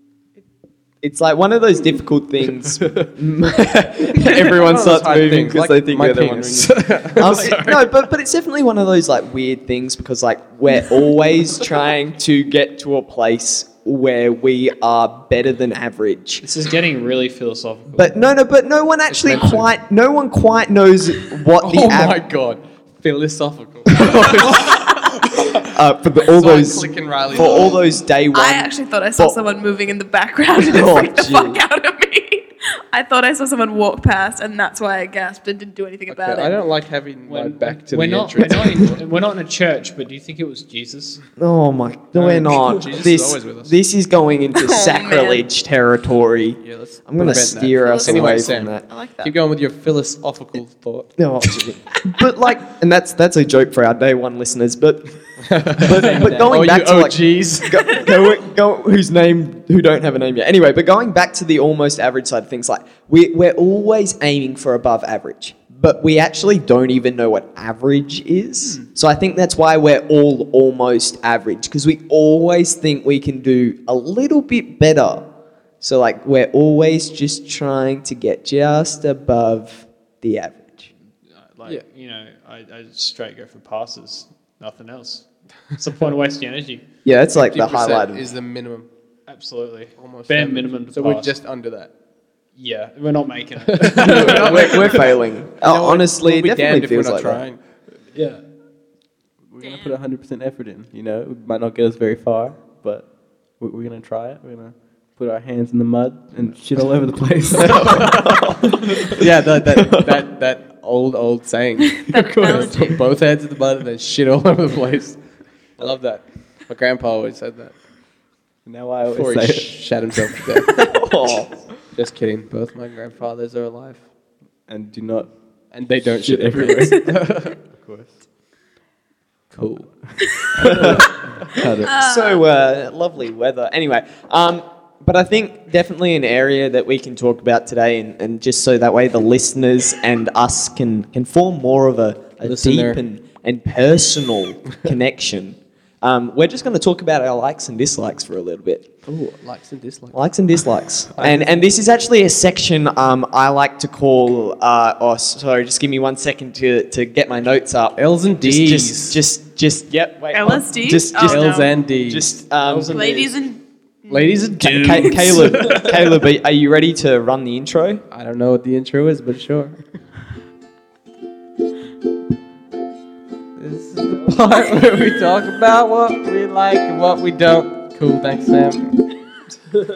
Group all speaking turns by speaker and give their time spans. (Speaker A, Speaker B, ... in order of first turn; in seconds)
Speaker A: 1.0-16.5, 17.9-22.2, 23.9-29.4, 30.6-31.6, 41.4-48.9, 51.2-75.3, 75.8-80.9, 87.0-88.2, 94.0-97.4, 107.7-109.1, 109.7-110.2, 120.7-121.6, 130.6-131.1, 131.8-148.9, 150.1-163.0, 164.6-168.0
Speaker B: 4.1-7.9, 19.1-19.7, 21.6-25.0, 26.2-27.8, 31.3-31.5, 36.1-39.0, 42.1-43.8, 46.6-51.1, 55.4-58.1, 68.6-68.9, 87.3-88.9, 90.0-91.9, 93.7-97.6, 107.6-115.2, 115.8-117.8, 119.1-121.0, 121.9-124.1, 125.7-127.6, 129.5-129.9, 130.7-131.1, 142.4-143.0, 149.1-150.3, 151.2-151.7, 158.0-159.2, 161.2-162.4, 164.1-165.7, 168.1-169.8, 173.6-178.9
Speaker C: 7.2-7.8, 16.4-18.3, 37.3-41.2, 81.5-86.8, 89.3-91.4, 92.6-95.0, 98.1-98.4, 162.6-163.4, 165.4-166.0
Speaker D: 27.3-27.7, 28.3-36.6, 44.5-45.5, 47.8-49.4, 99.6-100.0, 111.9-113.0, 131.7-132.4, 160.3-161.8, 162.9-165.8
Speaker E: 56.1-56.7, 99.5-108.4, 118.7-119.9, 124.7-125.4, 126.2-128.2, 129.6-131.9